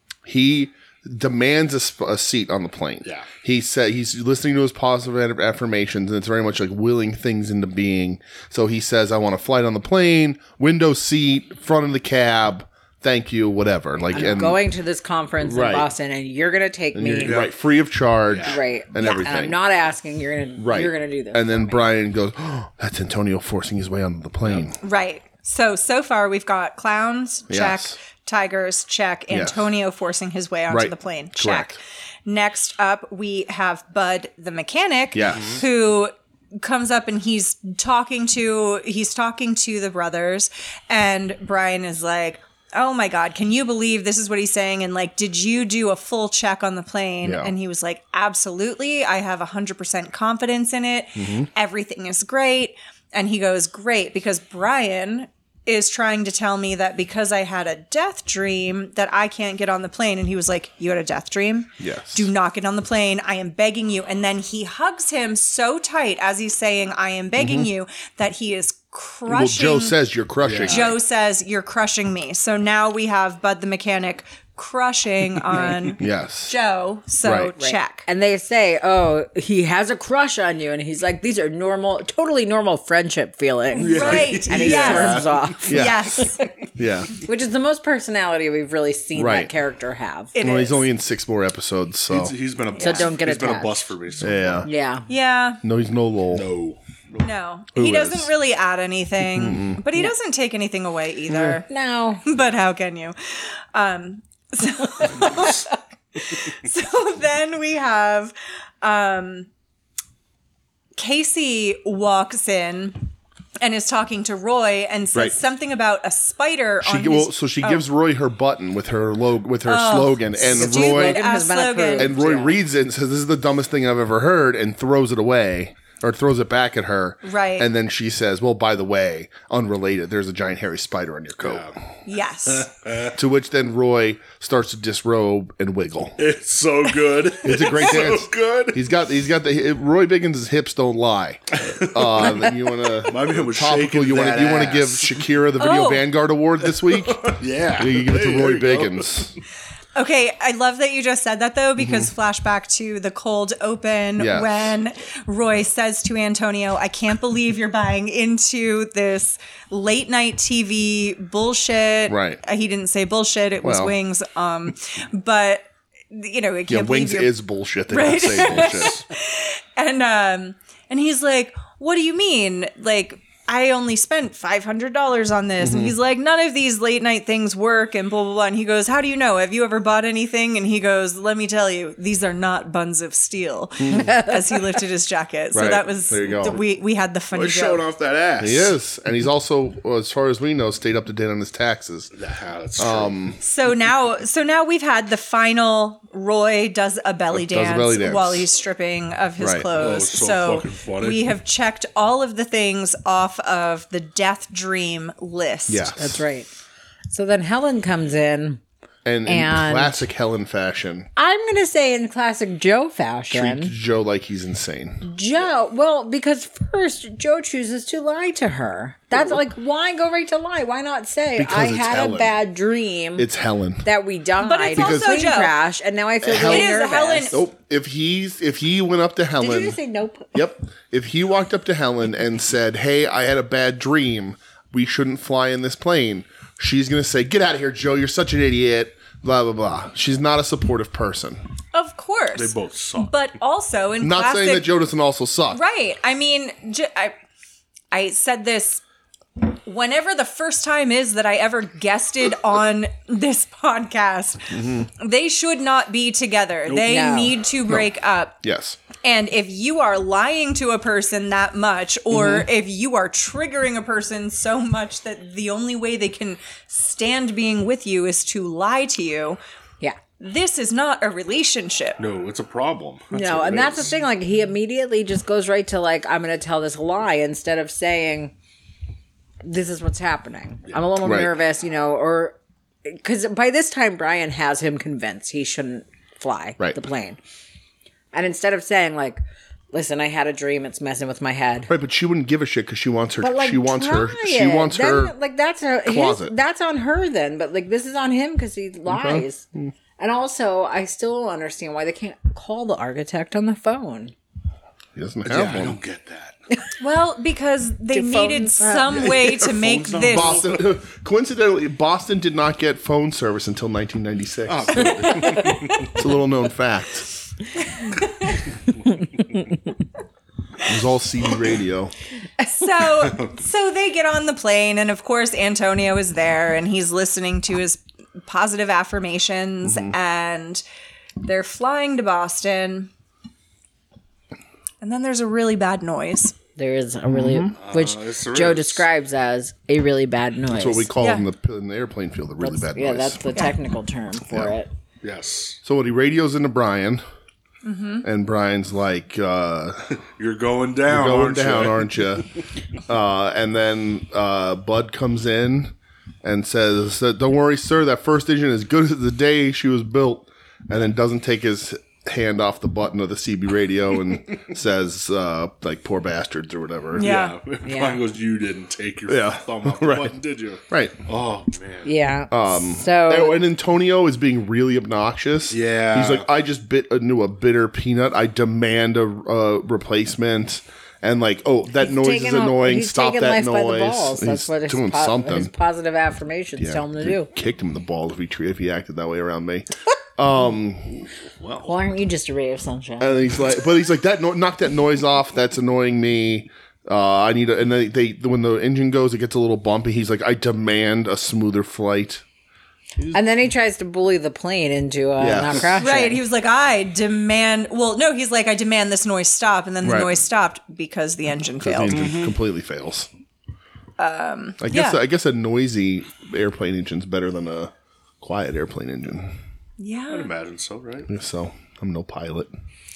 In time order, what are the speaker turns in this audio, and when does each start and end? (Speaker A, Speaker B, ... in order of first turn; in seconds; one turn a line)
Speaker A: 0.2-14.6
Speaker B: 14.1-17.4
Speaker A: 15.4-15.9
Speaker A: 16.9-19.6
Speaker C: 17.2-17.5
Speaker C: 18.3-18.6
Speaker B: 18.4-21.8
Speaker A: 20.6-24.8
Speaker D: 24.8-69.9
Speaker A: 27.5-27.9
Speaker A: 29.3-29.6
Speaker A: 30.7-31.8
Speaker A: 35.1-35.6
Speaker C: 35.3-35.6
Speaker A: 47.2-47.5
Speaker A: 51.2-51.5
Speaker A: 61.8-62.3
Speaker A: 67.4-67.7
Speaker A: 69.3-71.0
Speaker C: 70.4-71.0
Speaker D: 70.6-78.0
Speaker A: 76.0-76.5
Speaker A: 77.2-77.5
Speaker B: 77.6-86.2
Speaker D: 83.7-86.4
Speaker C: 83.8-85.6
Speaker A: 85.7-87.1
Speaker B: 87.2-90.3
Speaker A: 89.2-89.5
Speaker D: 90.3-90.8
Speaker A: 90.4-92.3
Speaker C: 92.1-94.7
Speaker D: 92.7-93.1
Speaker B: 92.8-93.8
Speaker A: 94.2-94.7
Speaker B: 94.6-95.1
Speaker D: 95.1-95.6
Speaker A: 95.6-96.5
Speaker C: 96.3-97.3
Speaker D: 97.2-101.7
Speaker A: 97.7-98.3
Speaker A: 99.3-99.8
Speaker B: 101.7-102.2
Speaker D: 102.2-109.5
Speaker D: 111.0-117.8
Speaker A: 116.8-121.2
Speaker D: 119.7-122.2
Speaker B: 120.4-122.5
Speaker A: 122.0-131.7
Speaker D: 127.2-127.7
Speaker C: 131.4-131.8
Speaker D: 132.1-132.7
Speaker C: 132.5-133.2
Speaker A: 133.1-136.2
Speaker C: 136.2-138.8
Speaker A: 137.4-149.3
Speaker C: 141.5-145.2
Speaker D: 145.6-146.0
Speaker C: 146.9-149.3
Speaker D: 149.9-167.3
Speaker A: 151.8-152.1
Speaker A: 154.2-154.7
Speaker A: 162.1-162.4
Speaker A: 163.6-163.9
Speaker A: 166.7-169.0
Speaker D: 167.9-187.8
Speaker C: 168.5-168.9
Speaker A: 175.6-175.9
Speaker A: 183.8-184.1
Speaker A: 185.5-186.6
Speaker C: 187.3-188.7
Speaker A: 188.4-192.1
Speaker C: 192.1-193.2
Speaker A: 192.8-193.4
Speaker D: 193.4-205.9
Speaker A: 197.3-198.4
Speaker A: 199.4-199.7
Speaker C: 199.7-201.3
Speaker A: 205.7-206.2
Speaker B: 206.0-206.5
Speaker B: 207.1-208.6
Speaker A: 209.0-211.1
Speaker B: 209.2-210.1
Speaker B: 211.2-213.7
Speaker A: 213.3-215.1
Speaker B: 215.0-223.3
Speaker A: 221.4-222.4
Speaker A: 223.2-223.8
Speaker B: 223.8-227.4
Speaker D: 224.4-225.6
Speaker A: 224.7-225.1
Speaker A: 226.2-226.7
Speaker D: 226.3-227.4
Speaker A: 227.3-229.8
Speaker B: 229.4-230.3
Speaker A: 230.3-241.4
Speaker D: 241.7-244.7
Speaker C: 242.3-243.1
Speaker A: 244.0-245.6
Speaker D: 245.5-247.1
Speaker D: 247.9-248.8
Speaker D: 249.4-258.4
Speaker A: 254.5-254.9
Speaker B: 256.8-257.4
Speaker A: 258.4-258.8
Speaker D: 259.0-269.4
Speaker A: 262.1-262.5
Speaker D: 270.2-272.0
Speaker C: 272.0-273.9
Speaker B: 273.1-278.3
Speaker B: 279.4-287.2
Speaker A: 281.0-281.3
Speaker B: 288.1-291.7
Speaker A: 291.7-295.1
Speaker B: 293.2-299.4
Speaker A: 295.9-296.3
Speaker A: 298.9-299.7
Speaker B: 300.0-304.1
Speaker A: 304.9-305.8
Speaker C: 305.2-306.4
Speaker D: 306.8-310.4
Speaker B: 307.9-309.2
Speaker C: 308.9-310.6
Speaker A: 310.1-317.1
Speaker C: 314.4-315.9
Speaker D: 314.9-315.9
Speaker D: 317.8-318.3
Speaker A: 320.6-321.9
Speaker D: 322.4-330.6
Speaker A: 329.6-329.9
Speaker D: 331.2-332.9
Speaker D: 334.8-336.3
Speaker B: 336.6-340.9
Speaker A: 337.1-337.5
Speaker C: 337.6-338.9
Speaker A: 340.5-343.2
Speaker D: 341.0-341.2
Speaker B: 342.4-344.7
Speaker A: 344.3-344.5
Speaker C: 345.0-345.6
Speaker A: 345.6-347.0
Speaker D: 347.6-348.1
Speaker A: 348.0-350.0
Speaker C: 350.1-352.1
Speaker A: 350.9-352.3
Speaker A: 352.8-367.1
Speaker D: 366.9-367.4
Speaker C: 366.9-371.9
Speaker B: 367.6-368.0
Speaker A: 369.1-370.1
Speaker A: 370.7-370.9
Speaker B: 371.8-373.4
Speaker A: 372.3-385.5
Speaker C: 375.5-376.3
Speaker B: 381.8-387.3
Speaker A: 386.6-391.0
Speaker C: 391.3-391.8
Speaker B: 391.6-393.2
Speaker A: 393.0-402.2
Speaker B: 403.1-406.2
Speaker A: 405.2-405.8
Speaker D: 405.8-412.0
Speaker A: 409.8-410.2
Speaker A: 411.6-413.1
Speaker C: 411.9-412.4
Speaker D: 414.0-415.0
Speaker A: 414.6-419.3
Speaker D: 419.8-420.3
Speaker C: 420.1-421.1
Speaker A: 421.1-422.5